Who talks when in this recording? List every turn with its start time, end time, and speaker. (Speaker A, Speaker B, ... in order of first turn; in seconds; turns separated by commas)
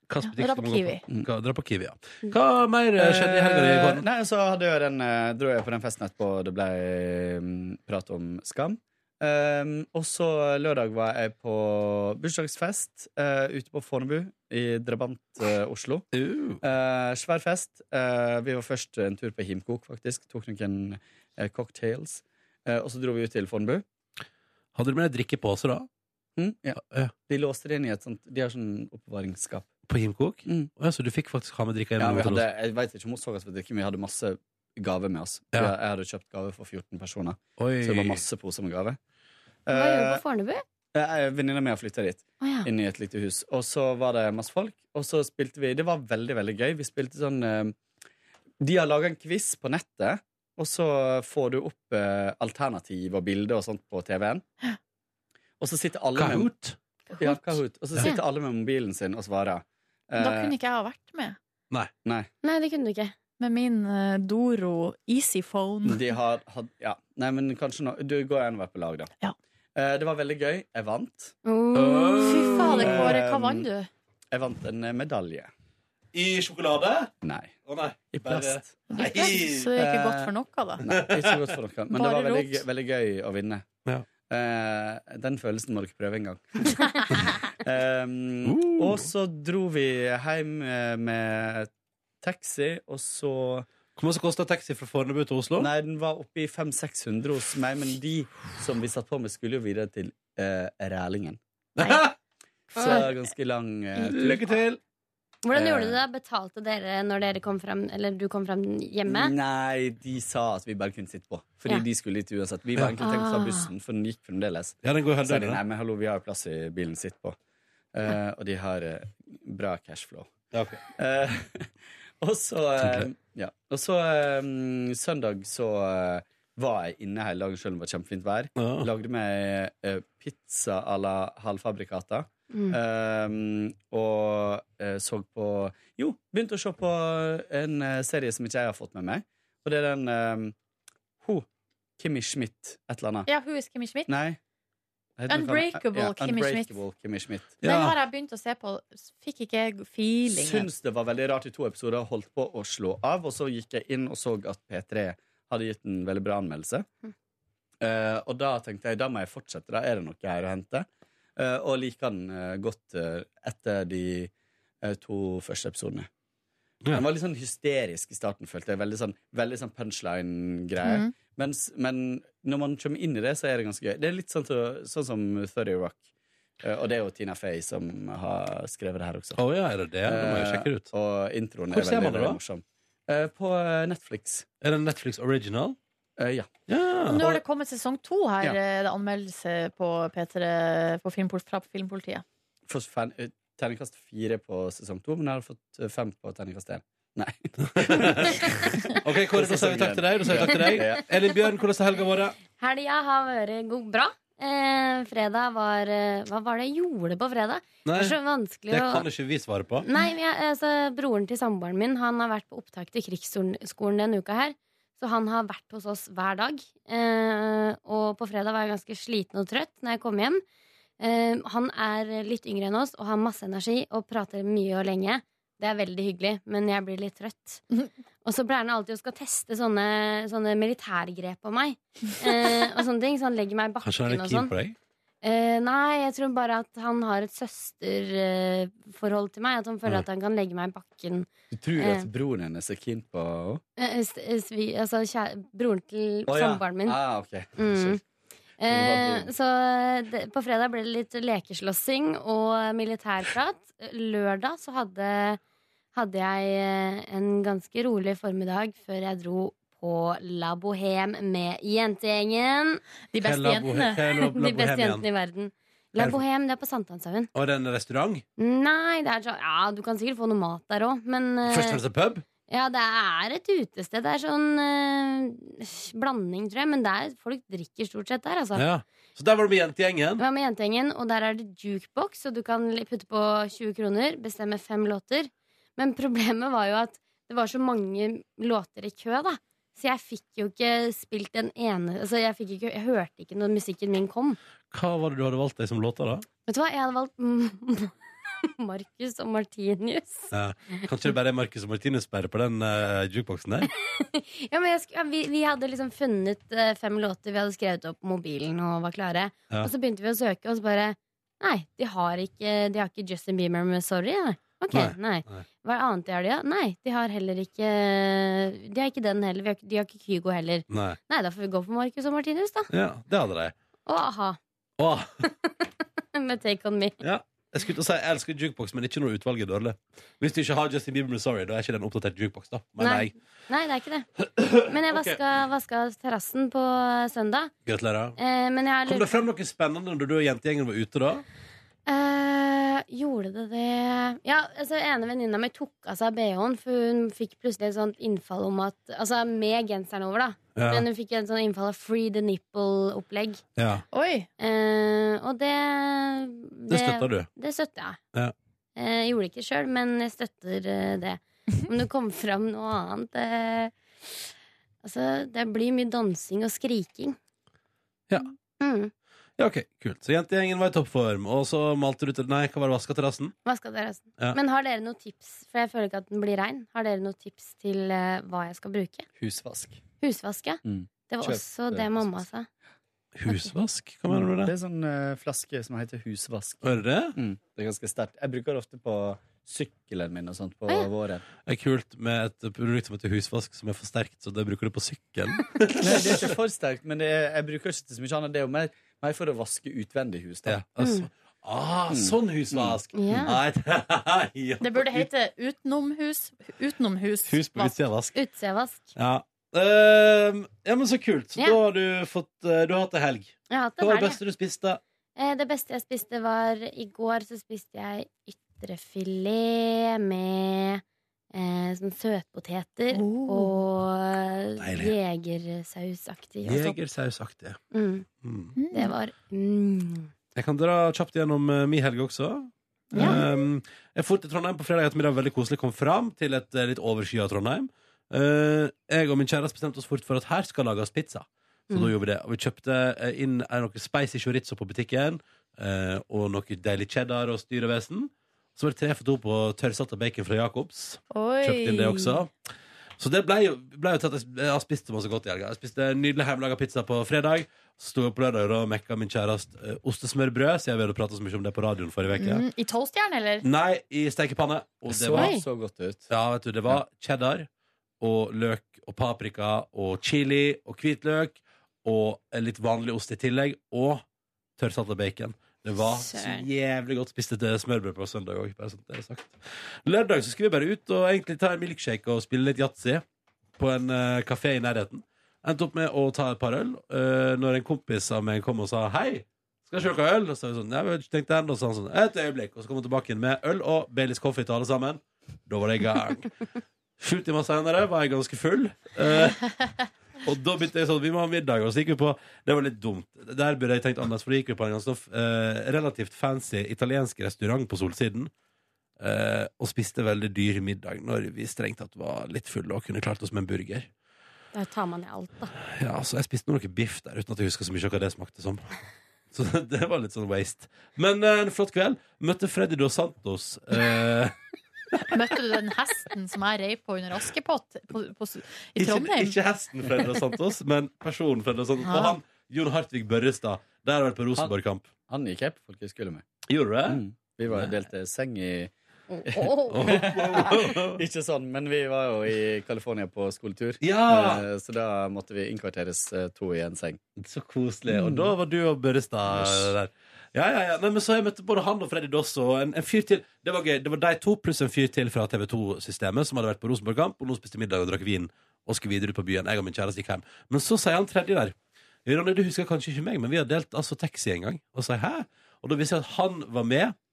Speaker A: 0.1-4.0, Speaker B: 0.2-1.0, Speaker C: 3.0-16.1, Speaker A: 16.1-16.6, Speaker C: 16.6-23.8, Speaker A: 24.7-25.9, Speaker C: 26.4-29.7, Speaker A: 26.8-27.1, Speaker A: 29.9-32.5, Speaker C: 30.4-30.7, Speaker C: 32.0-39.0, Speaker A: 37.6-38.2, Speaker C: 39.7-40.2, Speaker D: 39.7-40.6, Speaker C: 40.9-47.8, Speaker D: 42.4-42.7, Speaker C: 48.6-54.4, Speaker C: 55.6-56.5, Speaker A: 56.1-56.8, Speaker C: 57.2-60.5, Speaker B: 60.2-61.4, Speaker C: 62.0-62.3, Speaker D: 62.4-63.1, Speaker B: 63.4-66.0, Speaker C: 65.8-69.1, Speaker C: 69.8-71.3, Speaker D: 71.4-73.0, Speaker A: 71.7-73.2, Speaker B: 72.2-73.9, Speaker C: 72.7-73.7, Speaker C: 74.3-75.5, Speaker A: 76.1-77.1, Speaker C: 77.2-77.5, Speaker A: 77.6-79.8, Speaker C: 78.1-80.3, Speaker B: 78.9-80.8, Speaker C: 80.8-91.7, Speaker A: 80.9-81.5, Speaker B: 81.9-82.6, Speaker A: 88.4-89.1, Speaker C: 92.2-93.7, Speaker A: 94.0-95.7, Speaker C: 95.6-101.4, Speaker A: 101.8-102.1, Speaker C: 102.7-104.5, Speaker D: 102.7-103.1, Speaker A: 104.1-104.8, Speaker D: 105.4-109.3, Speaker C: 105.5-105.9, Speaker C: 109.0-117.3, Speaker D: 113.0-113.7, Speaker A: 114.8-115.6, Speaker C: 117.9-120.3, Speaker A: 120.5-120.8, Speaker C: 120.9-121.7, Speaker C: 122.2-140.5, Speaker A: 122.8-123.1, Speaker A: 128.6-128.9, Speaker D: 132.5-132.8, Speaker C: 141.2-141.4, Speaker C: 142.0-143.3, Speaker B: 143.3-144.1, Speaker C: 144.1-144.4, Speaker C: 145.2-147.9, Speaker B: 145.3-146.7, Speaker B: 147.6-150.7, Speaker A: 147.6-147.9, Speaker C: 150.3-156.9, Speaker C: 157.8-164.3, Speaker C: 164.8-166.1, Speaker C: 166.9-176.1, Speaker B: 170.8-171.1, Speaker C: 176.6-179.4, Speaker A: 179.3-180.9, Speaker C: 180.0-184.5, Speaker A: 181.7-182.4, Speaker A: 184.6-185.8, Speaker C: 186.2-186.5, Speaker A: 186.7-187.2, Speaker B: 187.1-192.2, Speaker C: 187.1-187.4, Speaker C: 192.7-198.6, Speaker A: 197.7-202.4, Speaker C: 199.3-201.0, Speaker D: 200.5-200.8, Speaker D: 202.6-209.1, Speaker A: 207.8-208.2, Speaker A: 208.7-209.8, Speaker D: 209.8-220.4, Speaker D: 221.0-227.6, Speaker D: 228.2-234.5, Speaker A: 233.8-234.8, Speaker D: 235.2-242.1, Speaker C: 241.5-243.6, Speaker D: 243.8-247.0, Speaker C: 246.3-248.0, Speaker D: 247.5-248.0, Speaker D: 248.6-255.4, Speaker C: 248.7-249.3, Speaker D: 255.9-262.8, Speaker B: 263.1-264.2, Speaker A: 263.2-265.0, Speaker D: 264.3-267.3, Speaker A: 266.0-266.2, Speaker A: 267.3-268.2, Speaker D: 268.4-271.8, Speaker A: 271.4-272.2, Speaker D: 272.5-278.7, Speaker A: 278.5-280.2, Speaker D: 280.2-294.4, Speaker A: 294.7-296.2, Speaker D: 296.5-300.8, Speaker A: 300.3-303.7, Speaker D: 303.6-322.7, Speaker A: 314.7-315.4, Speaker A: 320.7-321.0, Speaker A: 322.7-323.5, Speaker D: 323.9-324.4, Speaker A: 324.8-325.2, Speaker D: 325.2-327.0, Speaker A: 327.0-333.1, Speaker D: 332.8-334.1, Speaker A: 334.2-335.2, Speaker D: 334.7-337.5, Speaker A: 337.6-338.2, Speaker D: 338.2-339.1, Speaker A: 338.9-341.2, Speaker D: 341.9-353.4, Speaker A: 350.6-350.9, Speaker A: 353.6-353.8, Speaker B: 353.9-354.3, Speaker D: 354.4-358.0, Speaker A: 356.7-357.3, Speaker D: 358.8-363.7, Speaker D: 364.8-367.2, Speaker D: 368.6-368.9, Speaker A: 369.4-373.3, Speaker D: 373.4-379.1, Speaker C: 379.1-379.8, Speaker D: 380.0-382.5, Speaker C: 380.6-382.2, Speaker A: 383.1-384.5, Speaker C: 384.1-386.6, Speaker A: 386.6-387.1, Speaker C: 387.1-391.2, Speaker A: 391.4-396.2, Speaker C: 395.8-400.6, Speaker A: 400.4-405.1, Speaker D: 400.8-401.1, Speaker C: 401.9-403.4, Speaker D: 402.9-403.3, Speaker B: 404.6-407.8, Speaker A: 407.2-408.2, Speaker D: 408.1-408.9, Speaker A: 408.9-414.8, Speaker D: 413.5-414.2, Speaker D: 415.1-426.8, Speaker B: 422.9-423.5, Speaker A: 424.6-424.9, Speaker A: 426.4-427.6, Speaker D: 427.7-428.1, Speaker A: 428.2-428.5, Speaker B: 428.5-428.9, Speaker D: 428.7-430.1, Speaker A: 430.3-452.3, Speaker B: 432.9-433.3, Speaker D: 432.9-433.2, Speaker D: 441.7-441.9, Speaker B: 451.1-452.2, Speaker A: 453.0-462.4, Speaker B: 462.1-463.4, Speaker A: 463.4-465.4, Speaker C: 464.9-466.1, Speaker D: 465.1-465.4, Speaker A: 466.1-467.5, Speaker A: 468.0-474.0, Speaker A: 474.6-483.0, Speaker D: 476.0-476.5, Speaker A: 483.6-496.3, Speaker A: 497.0-499.6, Speaker A: 500.2-508.3, Speaker A: 509.0-513.9, Speaker D: 514.5-515.5, Speaker A: 515.6-518.8, Speaker A: 519.3-524.4, Speaker B: 525.1-529.4, Speaker A: 528.8-534.9, Speaker B: 531.8-532.2, Speaker C: 535.0-536.2, Speaker A: 536.5-537.7, Speaker C: 536.9-538.7, Speaker C: 539.2-547.0, Speaker A: 539.6-541.0, Speaker A: 543.8-544.4, Speaker A: 547.2-567.0, Speaker C: 547.9-548.3, Speaker C: 549.3-549.7